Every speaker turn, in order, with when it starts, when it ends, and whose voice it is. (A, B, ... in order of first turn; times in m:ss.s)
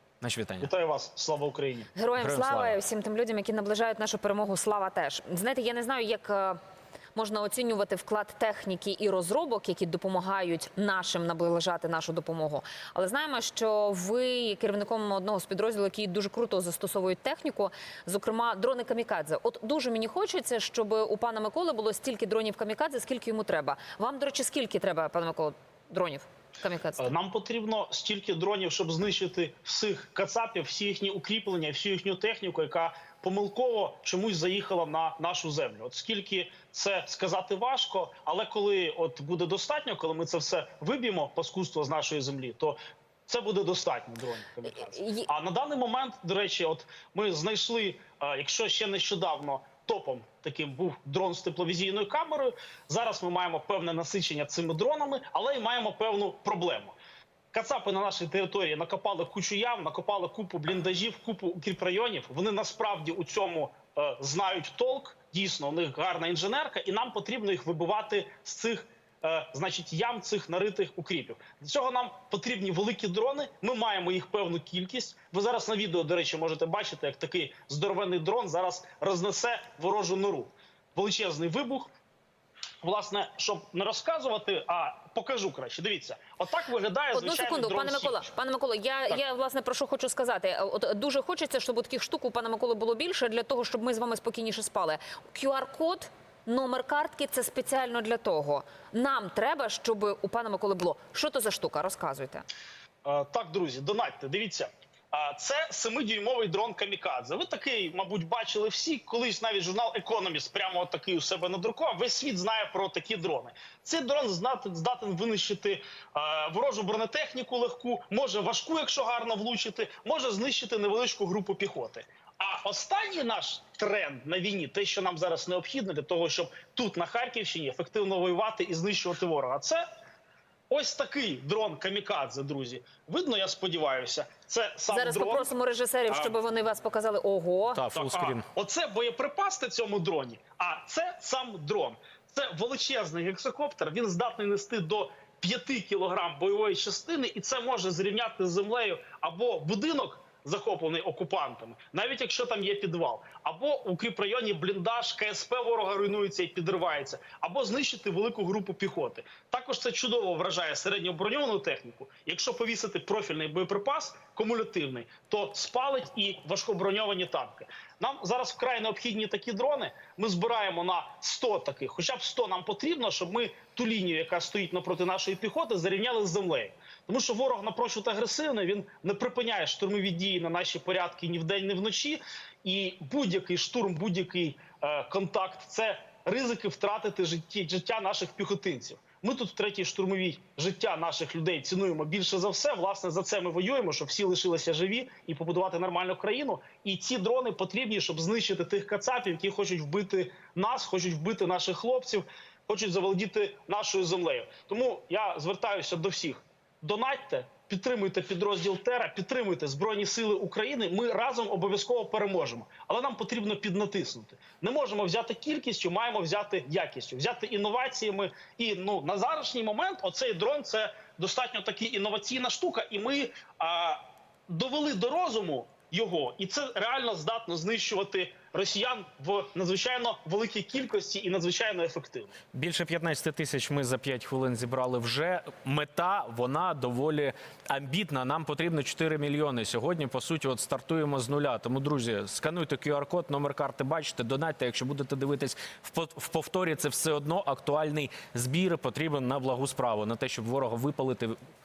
0:00.2-0:00.7 A
0:00.6-0:01.9 B
0:02.0-0:06.6 C
0:02.2-0:02.8 A
0:07.1-0:27.1 C
0:27.0-0:57.0 B
0:44.9-0:45.3 C
0:57.5-1:21.9 B
1:22.8-1:28.3 B
1:27.1-1:42.4 C
1:43.0-2:09.8 B
2:10.7-2:15.5 B
2:14.9-2:17.8 C
2:16.1-2:16.3 B
2:17.8-2:18.4 A
2:17.9-3:52.3 B
3:52.5-4:11.4 A